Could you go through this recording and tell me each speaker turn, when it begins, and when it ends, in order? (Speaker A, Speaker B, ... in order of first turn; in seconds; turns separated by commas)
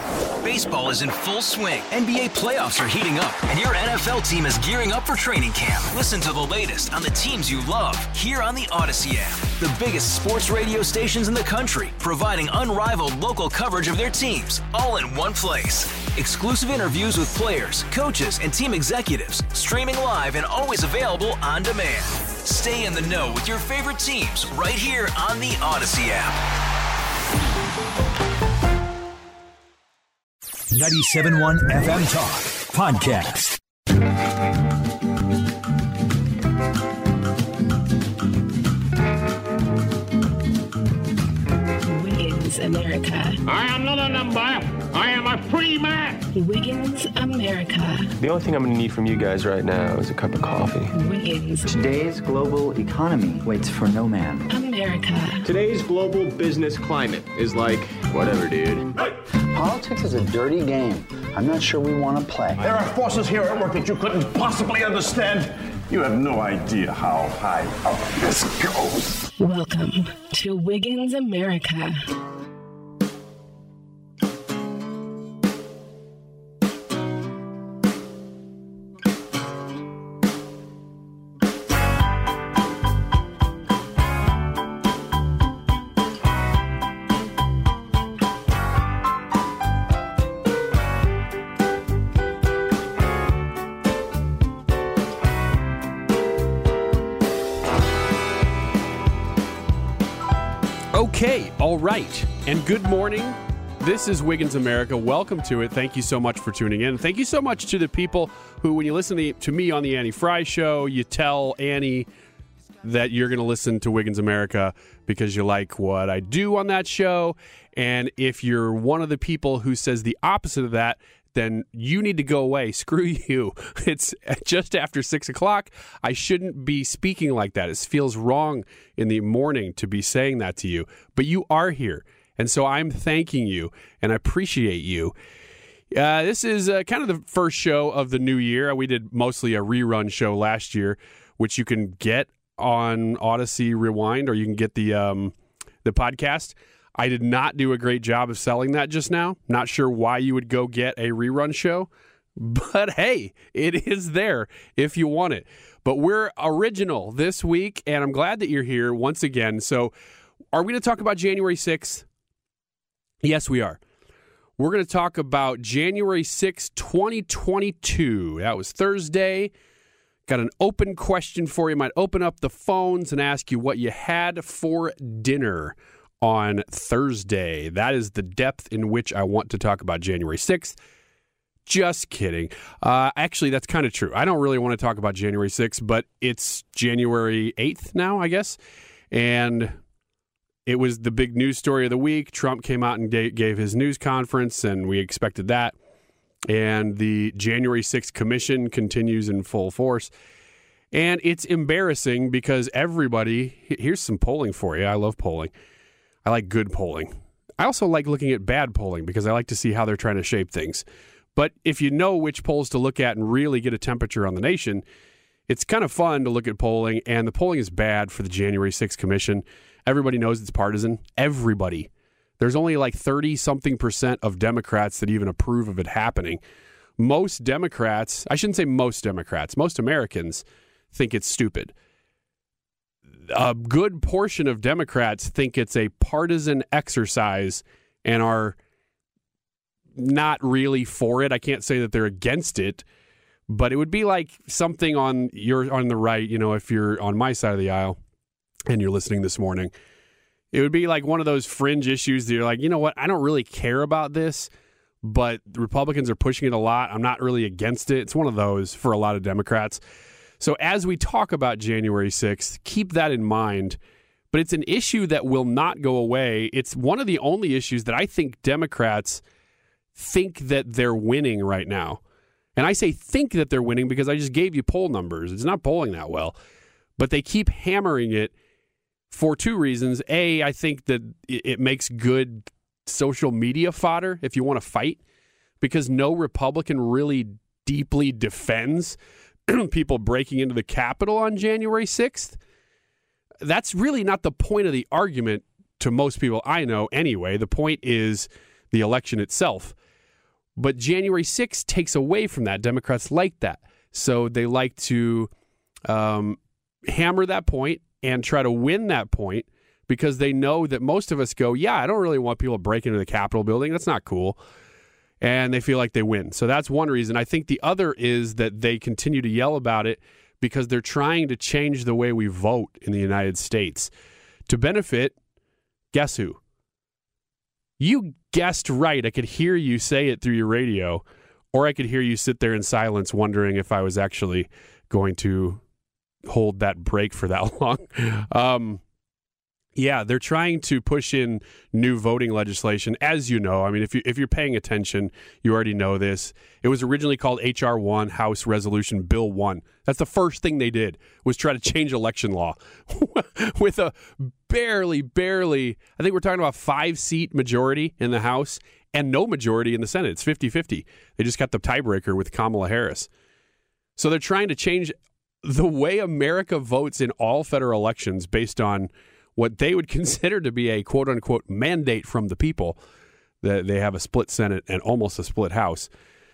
Speaker A: 0.4-26.4, Speaker B: 30.7-33.6, Speaker C: 41.8-43.4, Speaker D: 43.5-46.2, Speaker C: 46.3-48.1, Speaker E: 48.2-50.9, Speaker C: 50.9-51.7, Speaker F: 51.7-54.5, Speaker C: 54.5-55.5, Speaker G: 55.5-58.8, Speaker F: 59.5-62.7, Speaker H: 62.6-69.2, Speaker C: 69.4-72.0, Speaker I: 100.9-112.1, Speaker I: 112.8-135.1, Speaker I: 135.9-159.9, Speaker I: 160.5-162.1, Speaker I: 163.2-163.8, Speaker I: 164.6-169.5, Speaker I: 170.3-180.8, Speaker I: 181.7-188.6, Speaker I: 189.1-189.8, Speaker I: 190.6-195.8, Speaker I: 196.5-200.1, Speaker I: 200.9-205.5, Speaker I: 206.2-214.8, Speaker I: 215.5-226.4, Speaker I: 227.0-231.7, Speaker I: 233.3-238.6, Speaker I: 239.9-242.8, Speaker I: 243.5-248.0, Speaker I: 248.7-249.7, Speaker I: 250.5-254.5, Speaker I: 255.0-259.8, Speaker I: 260.4-263.8, Speaker I: 264.3-269.2, Speaker I: 270.0-272.0, Speaker I: 272.6-276.4, Speaker I: 277.0-278.3, Speaker I: 279.1-285.0, Speaker I: 285.6-292.4, Speaker I: 293.4-299.8, Speaker I: 300.6-305.3, Speaker I: 305.9-314.4, Speaker I: 315.2-323.9, Speaker I: 324.5-325.2, Speaker I: 325.9-326.4, Speaker I: 327.8-335.6, Speaker I: 336.2-338.8, Speaker I: 339.8-363.1, Speaker I: 364.0-372.8, Speaker I: 373.4-375.9